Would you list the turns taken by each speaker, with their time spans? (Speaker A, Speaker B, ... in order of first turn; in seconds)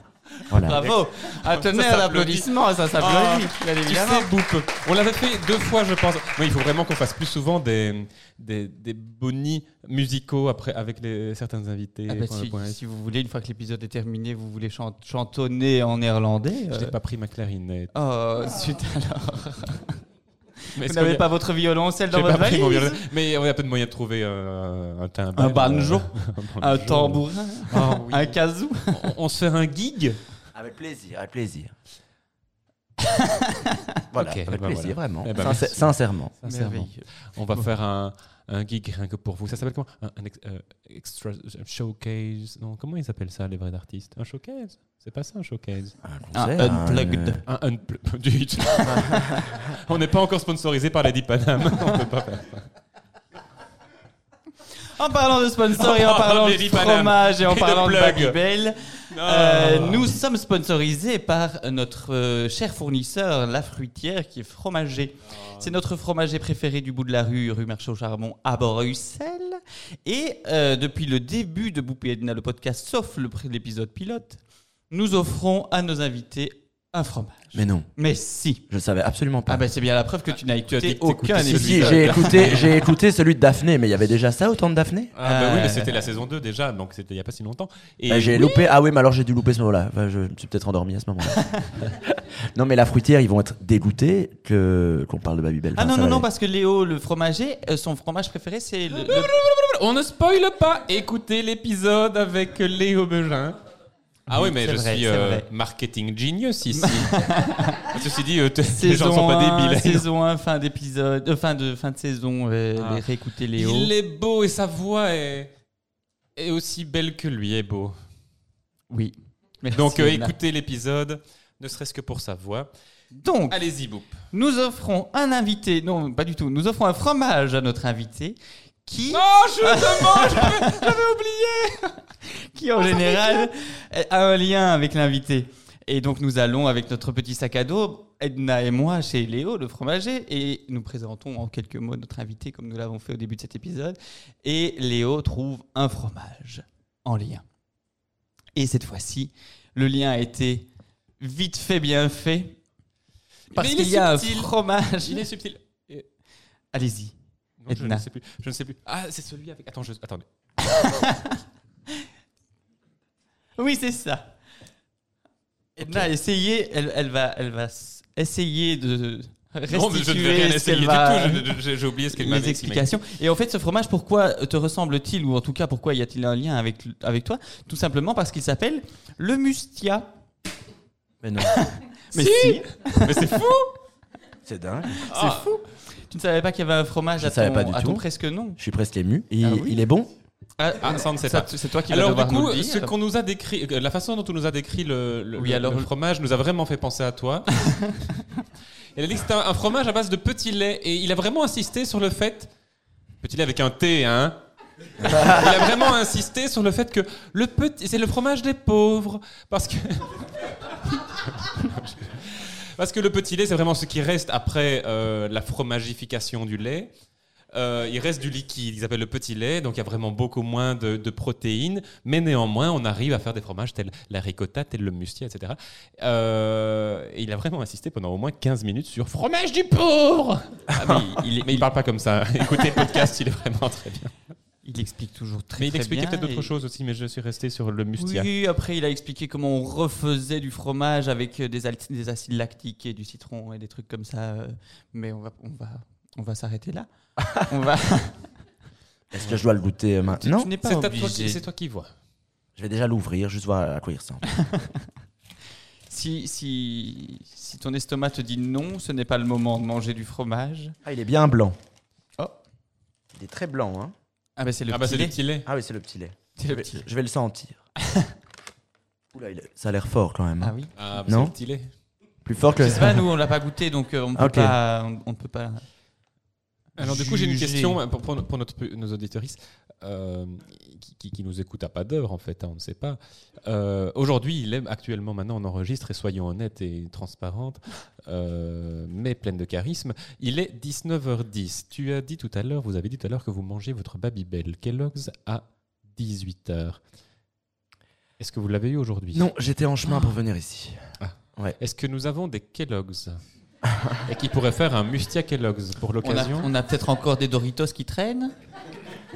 Speaker A: 0.5-0.8, 30.5-31.7, 34.1-36.3, 46.0-47.4, 48.9-49.4, 77.5-77.9, 78.7-79.6, 81.4-85.1, 88.1-96.2, 181.2-181.6, 184.4-185.0, 187.2-188.0, 188.6-190.1, 249.1-250.5, 252.6-254.2, 260.8-261.6, 263.1-263.9, 265.4-267.6, 269.1-270.5, 271.1-271.3, 272.2-273.0, 274.1-274.5, 299.1-301.6
Speaker B: 0.5-4.3, 12.1-16.9, 17.9-20.0, 20.7-23.0, 25.4-29.1, 33.0-33.9, 36.4-37.7, 46.3-47.4, 54.8-78.6, 79.5-82.7, 85.2-86.1, 91.4-91.7, 95.8-99.3, 104.3-105.5, 106.7-107.9, 108.7-113.9, 118.9-120.3, 123.1-123.6, 124.3-130.9, 132.2-147.4, 148.5-150.7, 151.2-152.6, 153.5-155.2, 156.7-157.2, 157.7-158.1, 160.6-162.1, 163.6-164.3, 165.8-171.6, 172.1-180.1, 181.4-183.4, 184.9-188.6, 189.4-189.8, 190.6-192.9, 195.3-195.9, 197.6-198.2, 230.7-231.7, 234.6-236.5, 238.0-248.2, 250.1-251.4, 254.3-254.8, 255.9-260.7, 264.4-265.2, 266.4-266.8, 267.8-268.1, 270.4-270.7, 272.6-275.6, 276.8-277.8, 306.0-308.3
Speaker C: 0.6-12.8, 16.7-17.9, 20.8-21.3, 22.1-28.4, 28.9-30.2, 34.1-45.9, 47.5-52.7, 55.8-58.4, 59.1-60.2, 65.4-65.7, 80.7-82.7, 85.2-88.7, 99.0-103.6, 104.3-110.1, 112.7-115.5, 116.3-118.0, 119.7-122.7, 123.5-124.2, 129.1-131.9, 132.8-133.5, 153.5-156.1, 157.6-160.2, 165.8-166.1, 169.7-172.9, 182.1-183.7, 185.1-185.5, 190.8-197.6, 198.9-202.5, 203.2-204.4, 205.0-216.9, 217.5-234.1, 235.6-238.3, 250.6-251.9, 264.7-265.5, 270.7-271.7, 276.8-296.8, 298.2-299.3, 301.0-303.2, 304.0-306.5